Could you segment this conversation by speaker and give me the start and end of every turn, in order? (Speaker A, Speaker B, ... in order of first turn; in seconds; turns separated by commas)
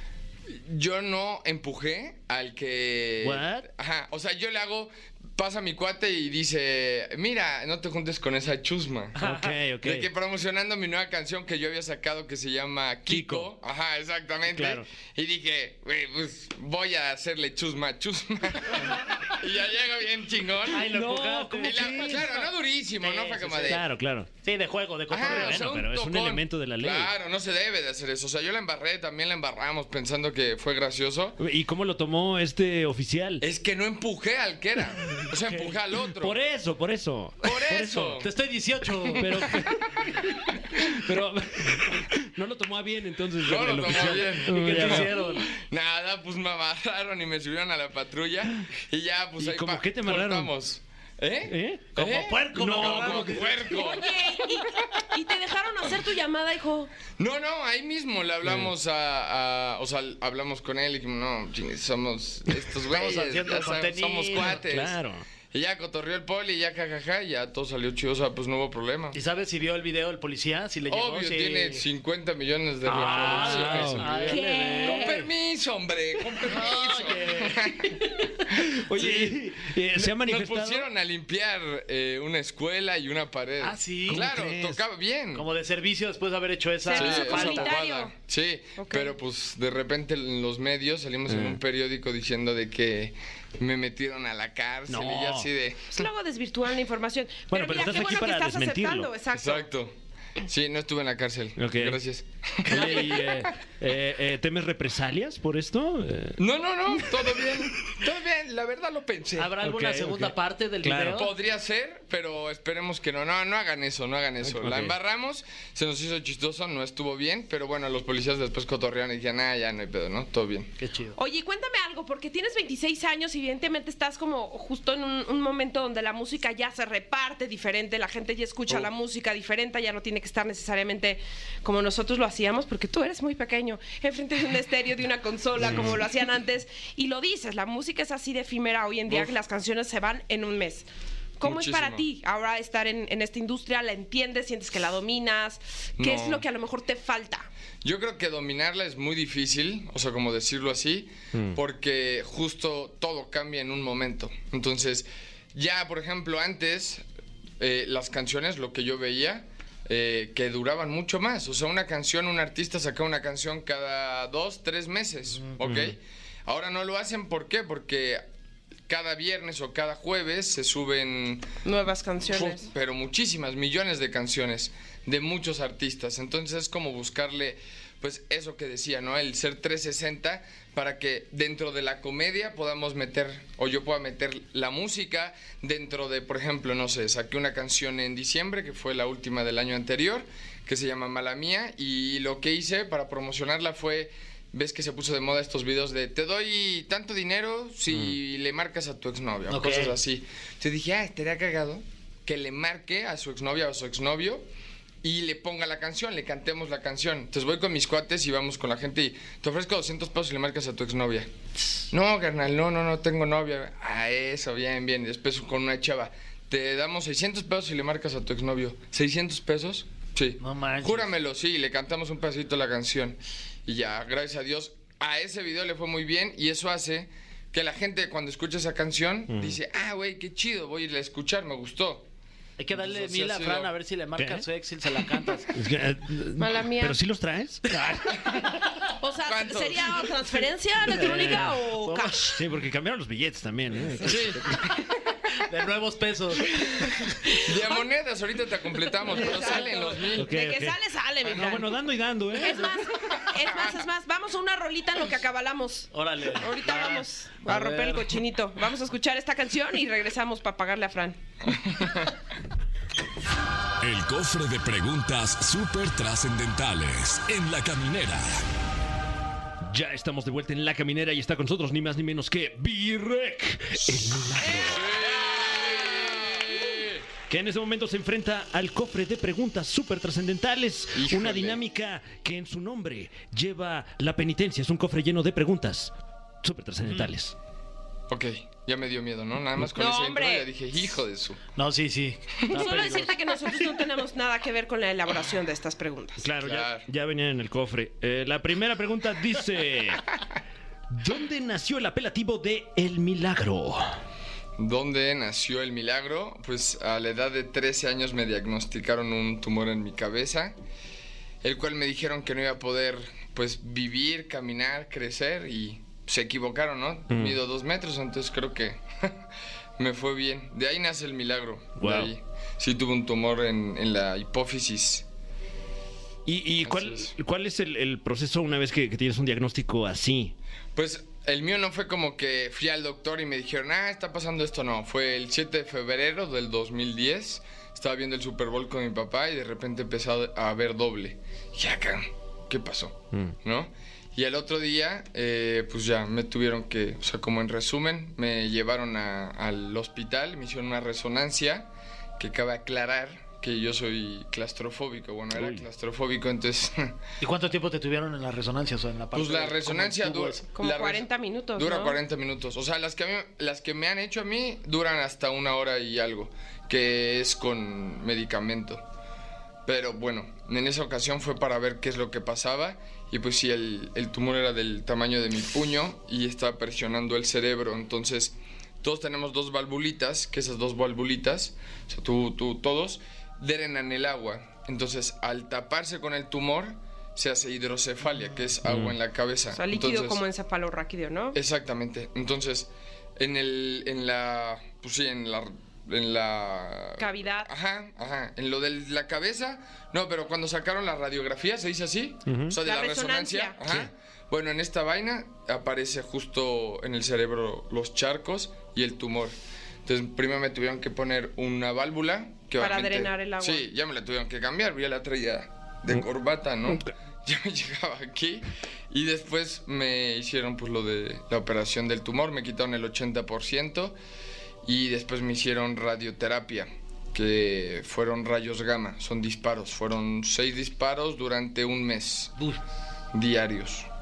Speaker A: 0.5-9.2, Speaker B: 3.2-3.7, Speaker C: 9.2-9.5, Speaker B: 9.2-10.1, Speaker A: 9.8-20.9, Speaker B: 13.1-13.5, Speaker B: 14.5-14.8, Speaker C: 20.7-22.4, Speaker B: 20.7-22.3, Speaker A: 21.6-23.8, Speaker C: 23.0-23.8, Speaker B: 23.7-24.3, Speaker C: 24.4-25.7, Speaker A: 25.1-31.4, Speaker B: 25.2-27.1, Speaker B: 31.4-33.4, Speaker A: 33.4-36.4, Speaker B: 35.2-38.2, Speaker A: 37.4-38.3, Speaker C: 38.2-39.5, Speaker A: 39.0-39.5, Speaker B: 39.2-45.2, Speaker A: 43.4-54.3, Speaker C: 44.4-45.5, Speaker D: 45.2-45.4, Speaker B: 49.4-50.5, Speaker B: 51.5-51.9, Speaker C: 51.9-53.8, Speaker B: 52.5-53.7, Speaker D: 53.7-56.9, Speaker A: 57.2-65.0, Speaker B: 58.4-58.7, Speaker C: 62.9-64.6, Speaker B: 64.4-65.2, Speaker A: 65.5-69.2, Speaker C: 69.1-71.8, Speaker A: 70.9-79.4, Speaker B: 72.8-74.1, Speaker C: 72.8-75.3, Speaker D: 74.2-75.2, Speaker C: 76.4-78.2, Speaker B: 78.6-80.9, Speaker A: 79.9-85.5, Speaker C: 83.6-84.3, Speaker B: 84.1-84.8, Speaker C: 85.3-87.8, Speaker D: 86.8-88.1, Speaker A: 86.9-96.1, Speaker D: 88.8-89.1, Speaker B: 91.3-91.6, Speaker B: 94.9-95.5, Speaker D: 95.9-99.7, Speaker B: 97.5-99.1, Speaker A: 99.3-103.5, Speaker B: 101.6-102.0, Speaker B: 102.6-106.4, Speaker A: 106.4-109.5, Speaker C: 109.4-111.3, Speaker B: 109.6-111.3, Speaker A: 111.1-120.7, Speaker B: 114.4-115.0, Speaker C: 120.8-121.2, Speaker D: 121.2-140.9, Speaker B: 135.6-135.9, Speaker A: 139.1-139.3, Speaker D: 141.4-147.5, Speaker A: 141.4-142.0, Speaker A: 146.0-146.4, Speaker A: 147.8-157.0, Speaker B: 151.3-151.6, Speaker A: 157.6-168.2, Speaker B: 165.6-165.9, Speaker A: 168.9-171.5, Speaker D: 171.6-172.7, Speaker A: 172.3-204.4, Speaker C: 199.5-199.9, Speaker A: 205.0-211.3, Speaker A: 211.9-232.1, Speaker C: 220.4-221.1, Speaker B: 229.3-229.6, Speaker C: 232.6-235.6, Speaker A: 232.7-233.7, Speaker B: 234.2-234.4, Speaker B: 235.5-238.4, Speaker D: 236.4-237.0, Speaker D: 239.0-242.4, Speaker A: 239.2-240.1, Speaker B: 240.9-241.6, Speaker C: 240.9-242.3, Speaker B: 242.2-244.7, Speaker A: 244.0-244.7, Speaker C: 245.4-247.0, Speaker D: 246.6-247.8, Speaker A: 247.4-250.3, Speaker D: 249.1-251.8, Speaker C: 249.1-249.8, Speaker B: 250.1-252.8, Speaker D: 252.3-261.2, Speaker C: 255.9-258.2, Speaker A: 261.5-262.1, Speaker E: 263.8-268.4, Speaker B: 269.7-274.9, Speaker A: 274.7-277.0, Speaker D: 276.3-276.8, Speaker B: 277.3-285.9, Speaker A: 280.9-281.6, Speaker B: 286.4-287.3, Speaker C: 286.9-287.1, Speaker A: 288.1-291.4, Speaker D: 289.7-290.5, Speaker C: 291.6-293.8, Speaker D: 292.5-296.2, Speaker B: 296.2-300.2, Speaker A: 296.4-296.9, Speaker B: 300.9-303.9, Speaker A: 304.6-310.5, Speaker A: 311.4-319.2, Speaker B: 317.1-317.4, Speaker A: 319.8-325.1, Speaker B: 321.8-322.1, Speaker B: 326.2-330.3, Speaker A: 326.6-327.1, Speaker A: 330.7-357.0, Speaker B: 355.4-355.6, Speaker C: 357.2-360.5, Speaker A: 359.1-368.8, Speaker D: 360.5-362.0, Speaker A: 369.6-390.2, Speaker B: 388.6-388.9, Speaker D: 389.5-391.4, Speaker A: 391.3-423.9, Speaker D: 397.0-397.5, Speaker B: 402.3-402.6, Speaker D: 402.6-403.6, Speaker D: 412.6-413.6, Speaker A: 424.6-432.3, Speaker A: 433.1-433.9